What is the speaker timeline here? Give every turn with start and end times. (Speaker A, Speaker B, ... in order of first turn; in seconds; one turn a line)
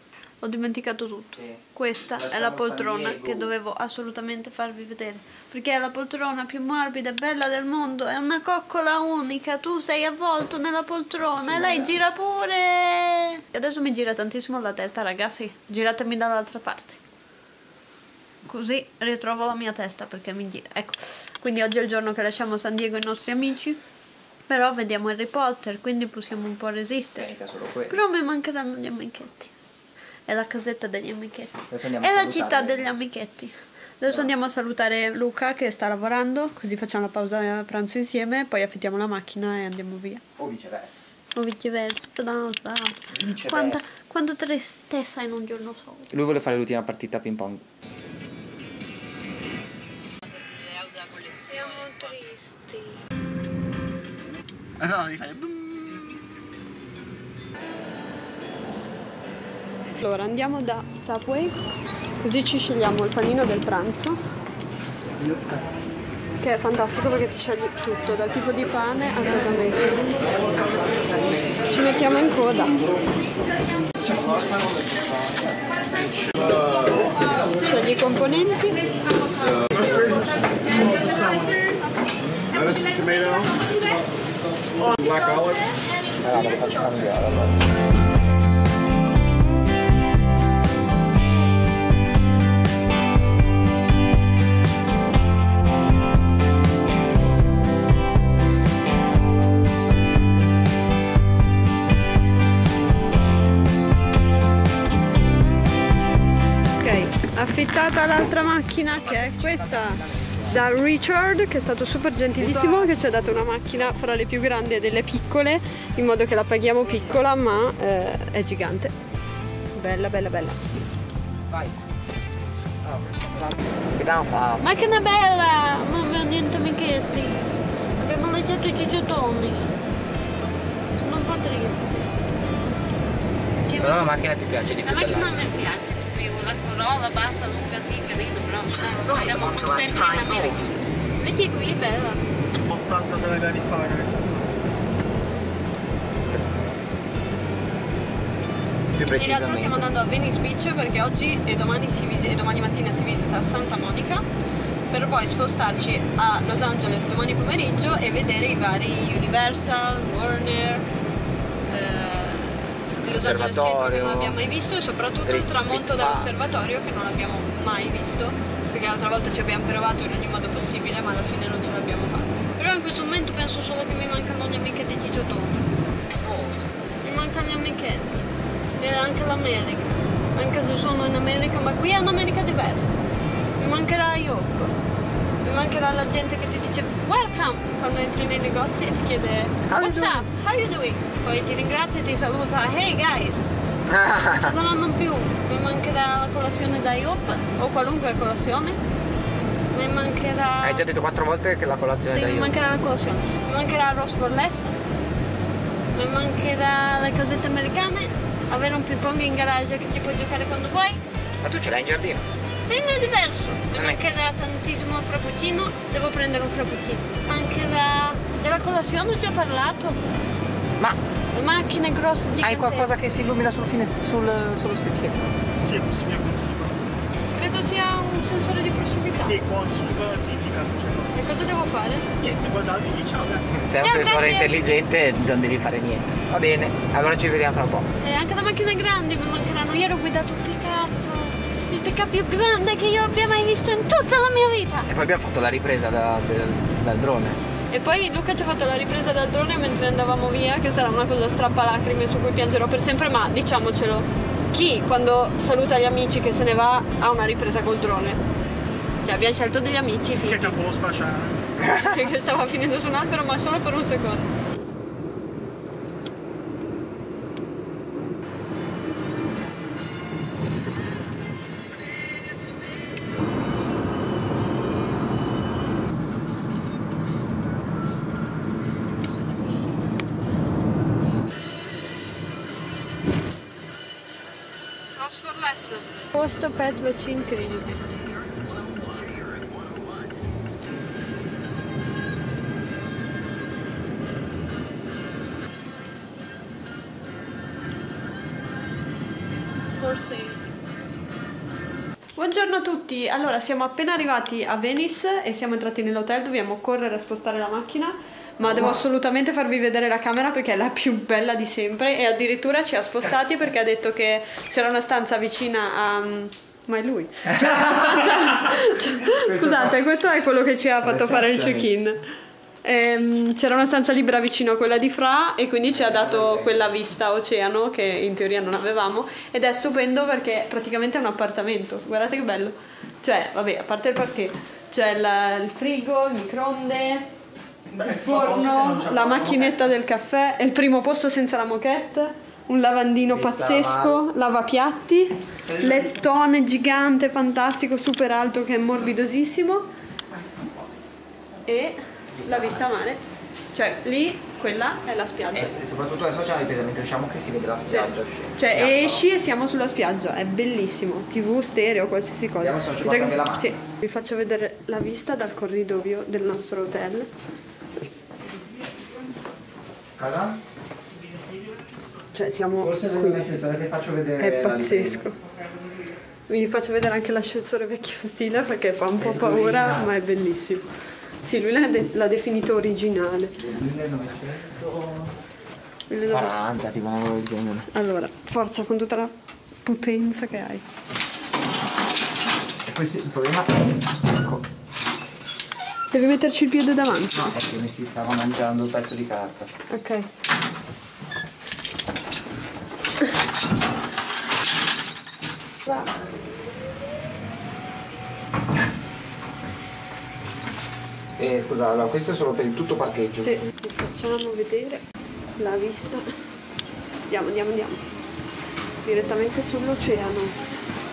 Speaker A: 0.4-17.0
Speaker B: 2.1-3.5
Speaker B: 11.4-12.0
Speaker A: 18.4-23.8
Speaker A: 24.5-27.3
Speaker B: 27.1-28.0
Speaker A: 27.9-29.5
Speaker A: 30.3-40.2
Speaker B: 31.7-32.9
Speaker B: 40.4-41.1
Speaker A: 41.3-46.1
Speaker B: 43.1-43.8
Speaker B: 46.1-47.6
Speaker A: 50.6-53.0
Speaker B: 54.8-56.0
Speaker A: 59.9-61.6
Speaker A: 62.2-64.2
Speaker A: 66.4-70.2
Speaker A: 71.7-72.8
Speaker A: 77.6-78.8
Speaker B: 79.7-80.9
Speaker B: 82.2-82.5
Speaker C: 82.6-83.5
Speaker C: 84.9-85.4
Speaker A: 85.0-85.6
Speaker B: 86.2-87.6
Speaker A: 106.8-118.9
Speaker B: 109.2-110.5
Speaker C: 112.4-113.1
Speaker A: 119.7-120.6
Speaker B: 121.5-121.8
Speaker B: 122.8-124.7
Speaker A: 124.6-127.5
Speaker A: 128.0-129.8
Speaker A: 131.0-132.1
Speaker A: 133.6-134.1
Speaker B: 133.8-135.4
Speaker A: 134.8-142.2
Speaker C: 142.7-144.5
Speaker B: 146.2-146.7
Speaker B: 149.0-149.9
Speaker A: 149.1-154.2
Speaker A: 154.9-160.9
Speaker A: 161.7-175.7
Speaker B: 163.1-164.4
Speaker B: 165.2-166.3
Speaker A: 177.0-178.3
Speaker A: 178.8-183.0
Speaker A: 183.6-184.8
Speaker A: 185.4-193.4
Speaker B: 189.7-190.3
Speaker B: 193.9-194.5
Speaker A: 194.3-198.8
Speaker A: 199.7-200.8
Speaker B: 200.6-202.6
Speaker A: 202.1-204.8
Speaker A: 205.9-211.0
Speaker B: 211.4-212.2
Speaker A: 212.6-220.0
Speaker B: 213.8-214.0
Speaker A: 221.3-222.9
Speaker B: 222.4-225.4
Speaker C: 225.6-226.8
Speaker A: 227.3-229.4
Speaker C: 229.2-231.2
Speaker A: 231.1-232.1
Speaker C: 232.2-233.6
Speaker B: 233.5-237.9
Speaker A: 233.7-234.6
Speaker A: 238.0-244.9
Speaker B: 244.9-247.4
Speaker A: 247.7-258.2
Speaker A: 259.0-260.6
Speaker C: 260.2-261.4
Speaker A: 261.6-264.3
Speaker A: 285.0-287.8
Speaker A: 299.8-300.4
Speaker A: 302.2-322.0
Speaker B: 319.2-319.7
Speaker B: 320.8-321.7
Speaker A: 322.6-337.1
Speaker B: 325.7-326.7
Speaker C: 337.7-339.7
Speaker A: 337.8-349.7
Speaker B: 343.1-344.0
Speaker A: 351.4-353.0
Speaker B: 352.1-352.7
Speaker A: 353.5-355.6
Speaker B: 355.3-359.0
Speaker A: 357.7-367.1
Speaker B: 362.4-363.5
Speaker B: 370.0-370.4
Speaker A: 372.1-373.4
Speaker B: 372.6-375.1
Speaker A: 374.2-375.2
Speaker A: 376.3-383.4
Speaker B: 379.0-379.9
Speaker B: 383.4-384.7
Speaker A: 385.9-386.4
Speaker B: 386.1-387.7
Speaker A: 387.7-389.1
Speaker A: 389.6-390.6
Speaker B: 392.7-394.4
Speaker A: 395.9-397.3
Speaker B: 397.1-399.5
Speaker A: 399.7-400.1
Speaker B: 411.2-413.4
Speaker A: 413.2-414.8
Speaker A: 415.4-416.2
Speaker A: 417.1-417.8
Speaker A: 418.8-420.4